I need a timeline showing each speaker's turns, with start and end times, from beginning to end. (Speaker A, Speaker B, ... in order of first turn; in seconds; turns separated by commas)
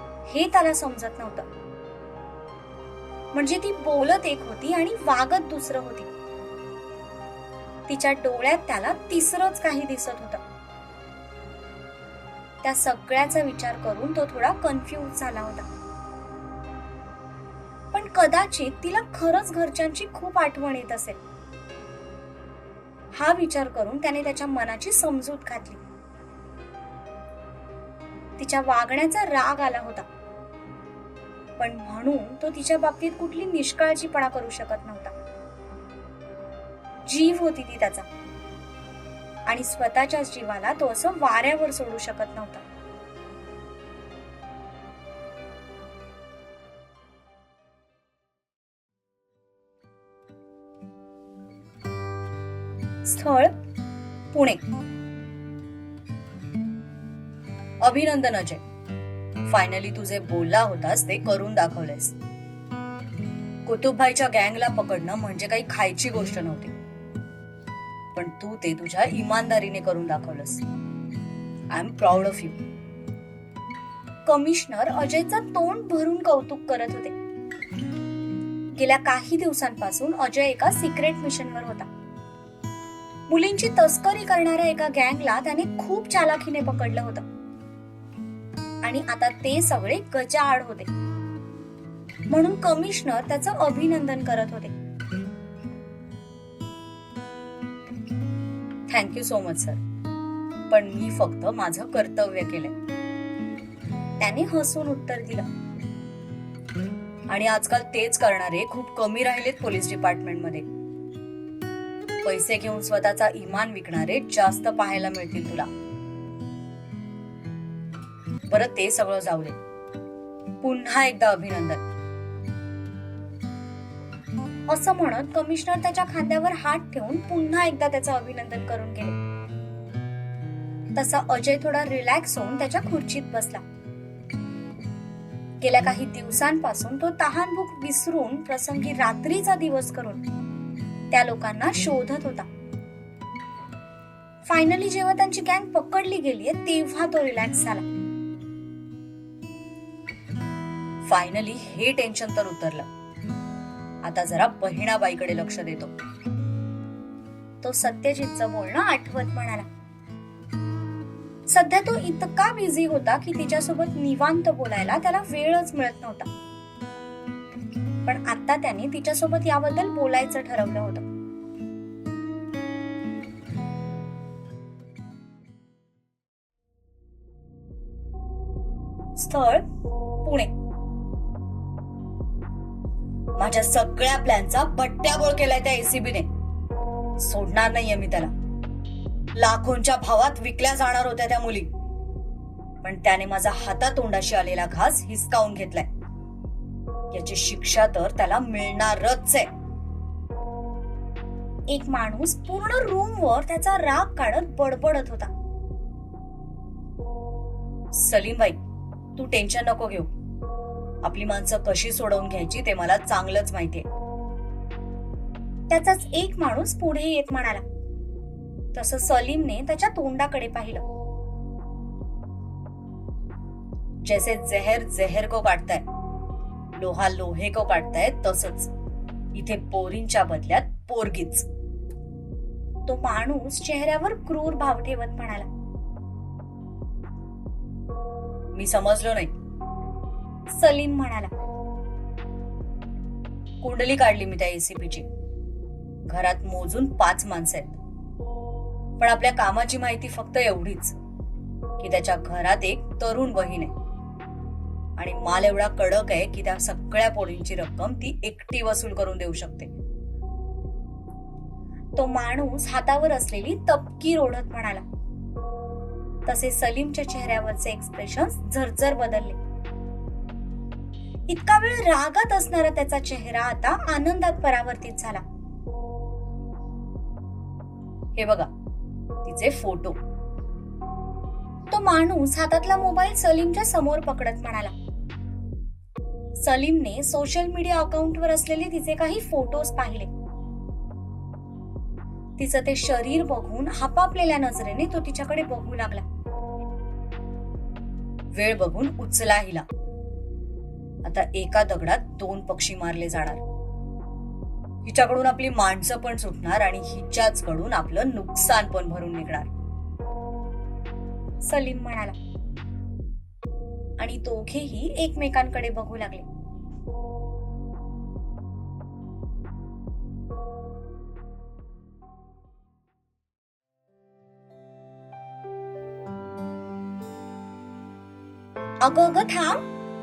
Speaker A: 0.3-1.5, Speaker A: 3.3-6.1, Speaker A: 7.9-10.4, Speaker A: 12.6-15.7, Speaker A: 17.9-21.2, Speaker A: 23.1-25.8, Speaker A: 28.4-30.1, Speaker A: 31.6-35.1, Speaker A: 37.0-38.1, Speaker A: 39.5-42.6, Speaker A: 53.0-53.5, Speaker A: 54.3-54.6, Speaker B: 57.8-58.6, Speaker B: 59.5-62.1, Speaker B: 63.6-66.7, Speaker B: 68.1-70.6, Speaker B: 71.7-72.6, Speaker A: 74.2-77.2, Speaker A: 78.7-81.9, Speaker A: 83.3-87.2, Speaker A: 88.8-90.9, Speaker A: 92.3-94.7, Speaker B: 98.9-99.8, Speaker B: 100.7-102.7, Speaker A: 104.2-105.5, Speaker B: 107.3-110.7, Speaker B: 112.2-115.7, Speaker B: 118.5-119.6, Speaker B: 120.6-121.8, Speaker A: 124.7-129.2, Speaker A: 130.9-133.6, Speaker A: 135.6-140.2, Speaker A: 141.1-142.5, Speaker A: 144.4-147.8, Speaker B: 151.0-152.9, Speaker B: 154.0-155.9, Speaker A: 157.6-159.7, Speaker A: 161.5-166.3, Speaker A: 168.0-171.0, Speaker B: 179.2-179.6, Speaker A: 180.2-180.5, Speaker B: 183.4-186.3, Speaker B: 187.2-188.3, Speaker B: 189.3-191.7, Speaker B: 192.8-195.9, Speaker B: 197.1-199.5, Speaker A: 201.7-205.3, Speaker B: 207.9-208.6, Speaker B: 209.2-210.1, Speaker B: 211.0-213.8, Speaker A: 215.7-217.6, Speaker A: 218.7-220.8, Speaker B: 224.0-225.8, Speaker B: 226.7-228.7, Speaker B: 229.3-231.5, Speaker A: 232.9-235.5, Speaker B: 238.5-239.3, Speaker A: 240.5-241.3, Speaker B: 243.6-245.1, Speaker B: 246.1-247.8, Speaker B: 249.0-250.9, Speaker B: 251.8-253.7, Speaker B: 255.0-259.7, Speaker A: 261.9-264.8, Speaker A: 266.2-269.4, Speaker A: 271.3-275.2, Speaker B: 278.1-278.5, Speaker B: 279.2-280.0, Speaker A: 281.7-284.7, Speaker A: 286.4-290.1, Speaker A: 292.4-296.0, Speaker B: 298.3-299.6, Speaker B: 301.0-303.4, Speaker B: 304.8-309.5, Speaker A: 311.4-312.1, Speaker A: 314.0-316.2, Speaker A: 328.8-329.6